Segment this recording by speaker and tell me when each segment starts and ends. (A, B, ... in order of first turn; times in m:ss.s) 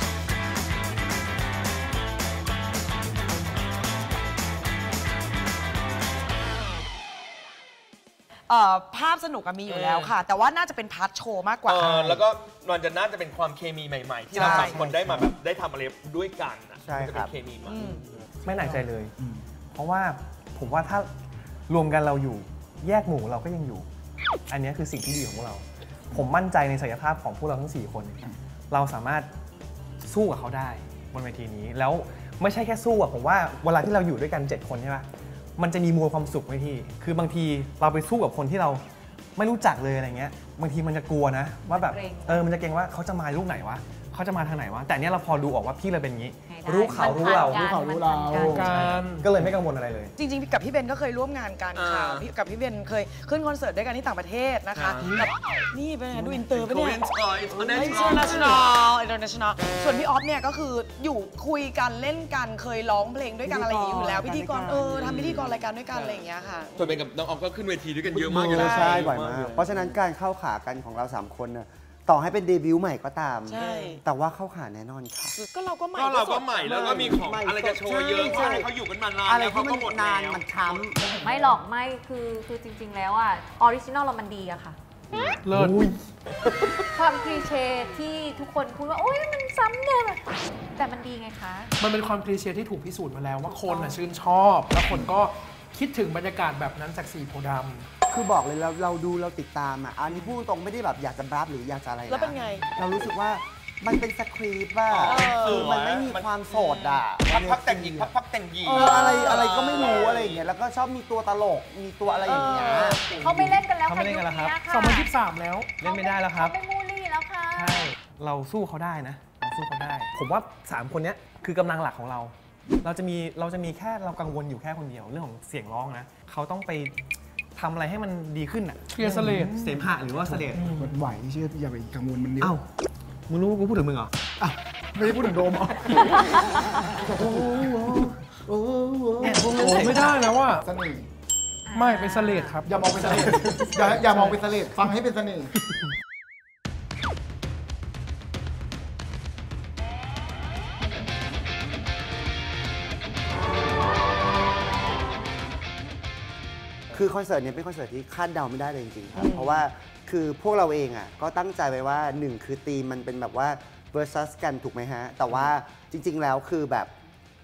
0:08.5-0:12.2 A
0:09.7-0:10.2 B
0:11.6-0:17.8 B
0:14.3-0:14.8 A
0:14.3-0:15.3 C
0:16.8-0:17.3 C
0:17.6-0:18.0 A
0:18.4-0:19.1 D
0:18.6-0:19.4 E
0:19.7-0:21.1 D
0:21.7-0:23.8 D
0:24.5-0:29.3 D
0:30.0-0:38.8 D
0:39.4-0:47.7 D
0:41.7-0:42.5 F
0:46.5-0:48.9 F
0:47.1-0:48.7 E
0:48.4-0:50.1 D
0:48.4-0:49.3 G
0:50.2-1:07.0 A
0:51.7-0:52.3 B
0:54.7-0:55.2 B
0:56.4-0:58.7 B
1:03.4-1:05.6 C
1:05.0-1:09.9 B
1:08.1-1:15.3 C
1:08.5-1:09.1 A
1:13.4-1:14.0 A
1:15.3-1:16.5 A
1:15.9-1:20.9 B
1:16.5-1:18.7 C
1:19.2-1:21.1 C
1:21.2-1:25.3 F
1:25.3-1:25.9 D
1:25.4-1:25.9 G
1:26.9-1:30.2 F
1:30.8-1:31.7 F
1:31.8-1:37.9 G
1:33.4-1:34.0 F
1:38.1-1:53.0 C
1:42.1-1:42.7 A
1:44.9-1:50.4 B
1:45.0-1:45.7 A
1:48.7-1:49.4 A
1:52.2-1:53.1 A
1:53.0-1:55.1 F
1:53.8-1:54.6 D
1:54.7-1:55.8 G
1:55.8-1:56.6 D
1:55.8-1:57.9 F
1:57.5-2:07.0 D
2:07.6-2:10.7 D
2:08.9-2:09.6 G
2:10.3-2:12.6 E
2:10.5-2:11.0 G
2:12.4-2:12.7 D
2:13.3-2:14.1 D
2:14.4-2:21.1 E
2:17.2-2:17.8 D
2:19.2-2:20.1 D
2:19.3-2:20.6 G
2:21.7-2:22.6 F
2:21.7-2:24.4 G
2:22.6-2:25.5 E
2:36.9-2:46.9 C
2:39.1-2:39.6 A